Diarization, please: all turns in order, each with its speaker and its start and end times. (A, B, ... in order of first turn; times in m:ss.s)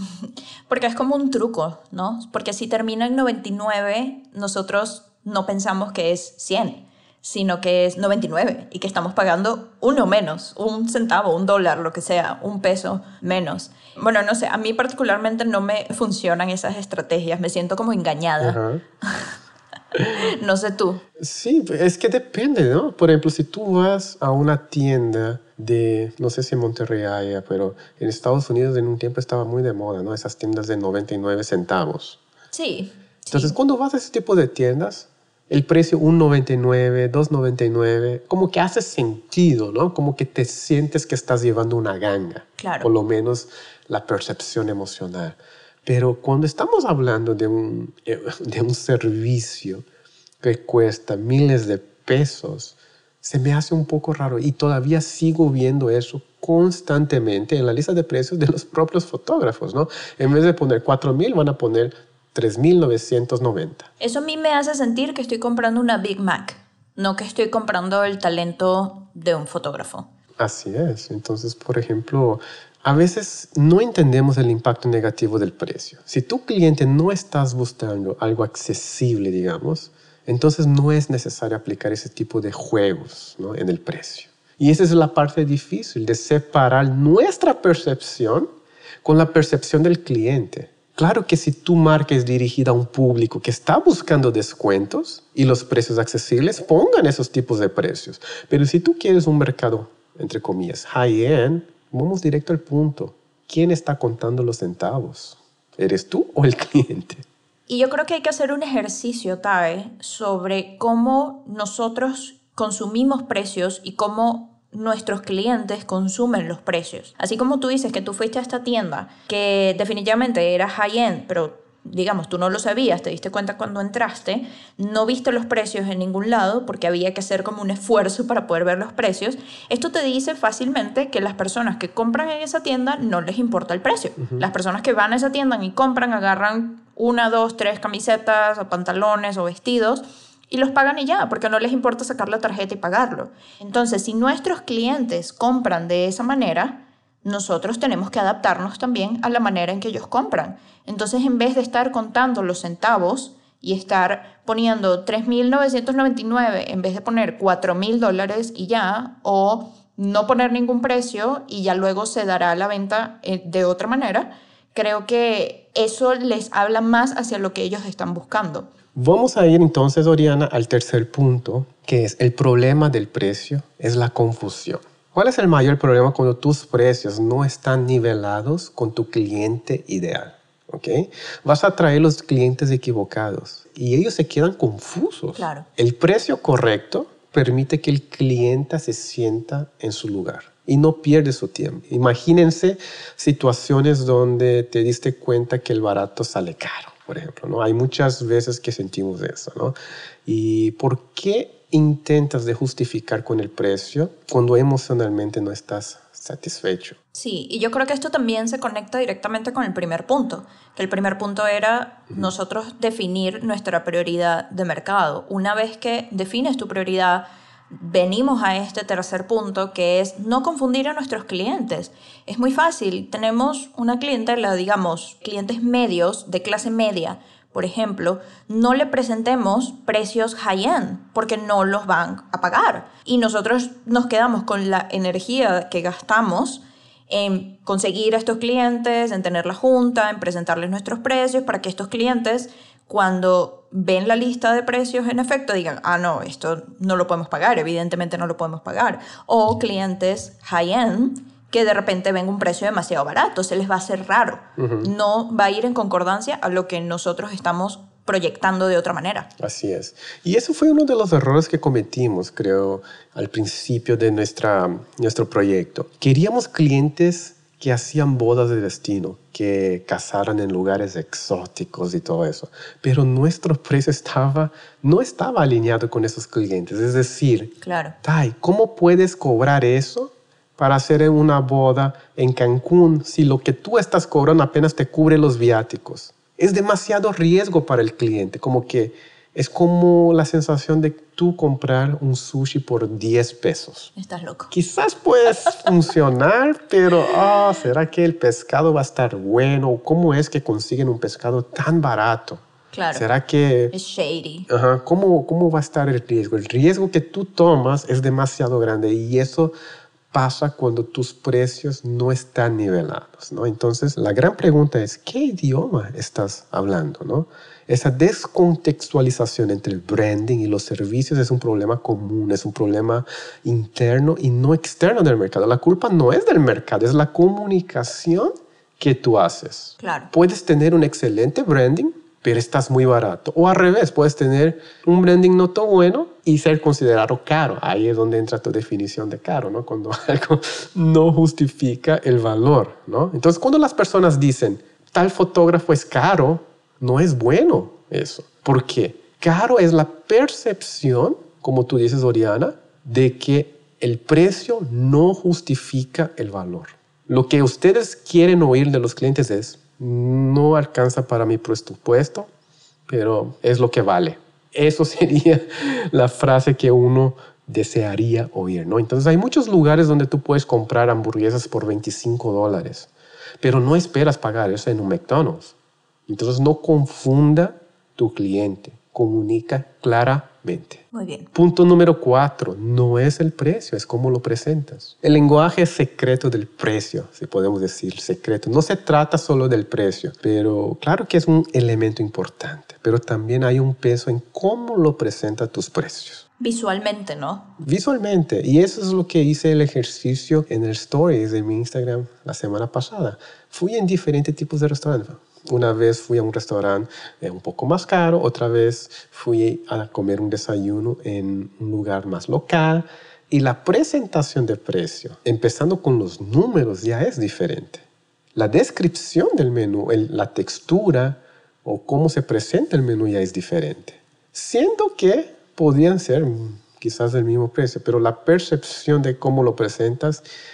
0:00.2-0:19.3 A
0:18.4-0:18.8 B
0:20.1-0:21.0 A
0:21.2-0:32.2 B
0:32.5-0:33.6 A
0:33.3-0:49.8 B
0:42.6-0:42.9 A
0:50.4-1:03.9 B
1:04.0-1:10.1 A
1:10.4-1:28.5 B
1:29.0-1:47.2 B
1:47.7-2:48.7 A
2:14.2-2:14.4 B
2:49.0-3:19.8 B
3:05.4-3:05.7 A
3:20.3-3:27.0 B
3:27.1-4:19.3 A
4:14.6-4:14.9 B
4:19.4-4:53.9 B
4:37.6-4:38.0 A
4:54.0-4:54.5 A
4:54.5-5:03.7 B
5:02.7-5:03.0 A
5:03.7-5:04.5 A
5:04.5-5:09.5 B
5:10.1-6:02.3 B
5:29.8-5:30.1 A
6:02.9-6:12.9 B
6:13.4-6:15.6 B
6:16.1-6:36.2 B
6:20.9-6:21.3 A
6:36.4-6:37.5 A
6:37.6-7:10.2 B